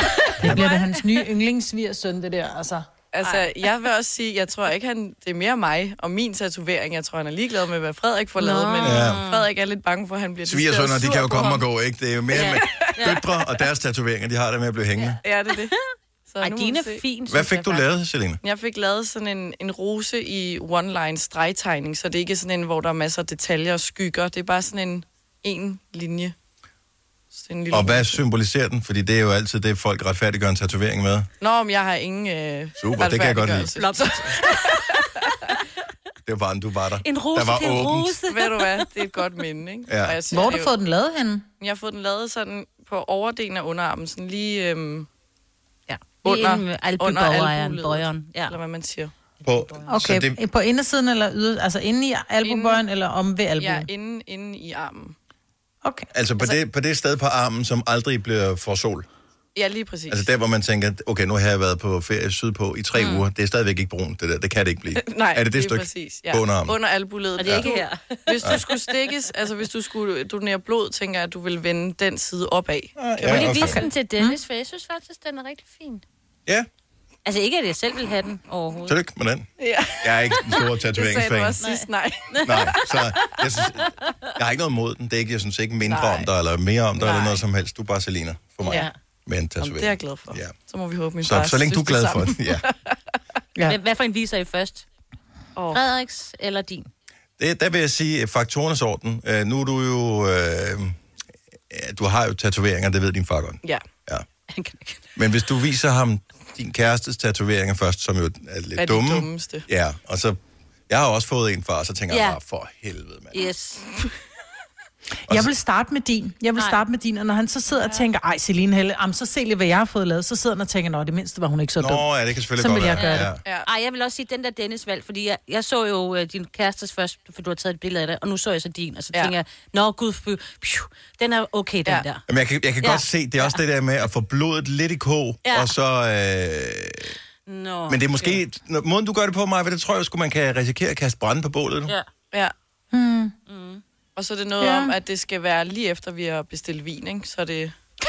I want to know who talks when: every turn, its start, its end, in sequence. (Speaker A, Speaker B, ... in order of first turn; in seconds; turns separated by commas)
Speaker A: 0.4-2.9, Speaker B: 3.1-11.6, Speaker C: 8.4-9.5, Speaker D: 8.8-9.2, Speaker D: 10.4-15.2, Speaker C: 12.3-13.2, Speaker B: 12.3-12.9, Speaker B: 15.2-15.8, Speaker B: 16.3-17.0, Speaker C: 16.4-17.8, Speaker D: 17.3-18.4, Speaker B: 18.4-26.3, Speaker B: 27.3-28.2, Speaker D: 27.7-31.3, Speaker B: 31.4-35.2, Speaker D: 32.8-33.7, Speaker C: 33.8-35.5, Speaker D: 36.2-38.1, Speaker C: 37.0-38.9, Speaker B: 38.3-40.7, Speaker D: 39.9-40.2, Speaker A: 40.3-41.4, Speaker B: 41.6-45.1, Speaker C: 45.9-48.5, Speaker B: 46.2-49.1, Speaker C: 49.4-49.9, Speaker D: 49.4-50.4, Speaker A: 49.9-53.9, Speaker B: 52.4-52.8, Speaker B: 53.6-55.1, Speaker D: 56.1-59.1, Speaker B: 59.5-60.3, Speaker D: 60.1-66.8, Speaker C: 62.9-63.2, Speaker B: 65.0-73.9, Speaker C: 67.4-68.9, Speaker D: 67.4-67.7, Speaker D: 73.0-73.8, Speaker C: 73.2-76.0, Speaker C: 77.2-79.0, Speaker D: 78.8-79.5, Speaker B: 79.6-83.0, Speaker D: 80.0-81.6, Speaker C: 81.6-83.4, Speaker D: 82.4-90.5, Speaker B: 85.8-86.3, Speaker B: 87.1-87.3, Speaker B: 88.6-88.9, Speaker C: 88.6-88.9, Speaker B: 89.6-93.0, Speaker D: 91.2-92.6, Speaker C: 93.6-94.8, Speaker B: 95.5-95.8, Speaker C: 95.7-96.9, Speaker D: 97.4-101.0, Speaker D: 101.7-104.2, Speaker C: 104.5-105.0, Speaker D: 105.2-110.4, Speaker B: 108.8-109.6, Speaker D: 110.9-113.5, Speaker C: 112.1-112.4, Speaker C: 113.3-113.8, Speaker A: 115.3-122.0, Speaker C: 116.5-116.8, Speaker D: 121.8-123.4, Speaker A: 122.5-123.3, Speaker C: 122.9-132.2, Speaker D: 132.3-137.1, Speaker C: 132.8-133.6, Speaker C: 135.4-135.7, Speaker C: 137.4-138.4, Speaker D: 137.9-141.9, Speaker A: 142.9-143.3, Speaker C: 143.5-143.8, Speaker B: 144.2-147.7, Speaker A: 144.6-144.9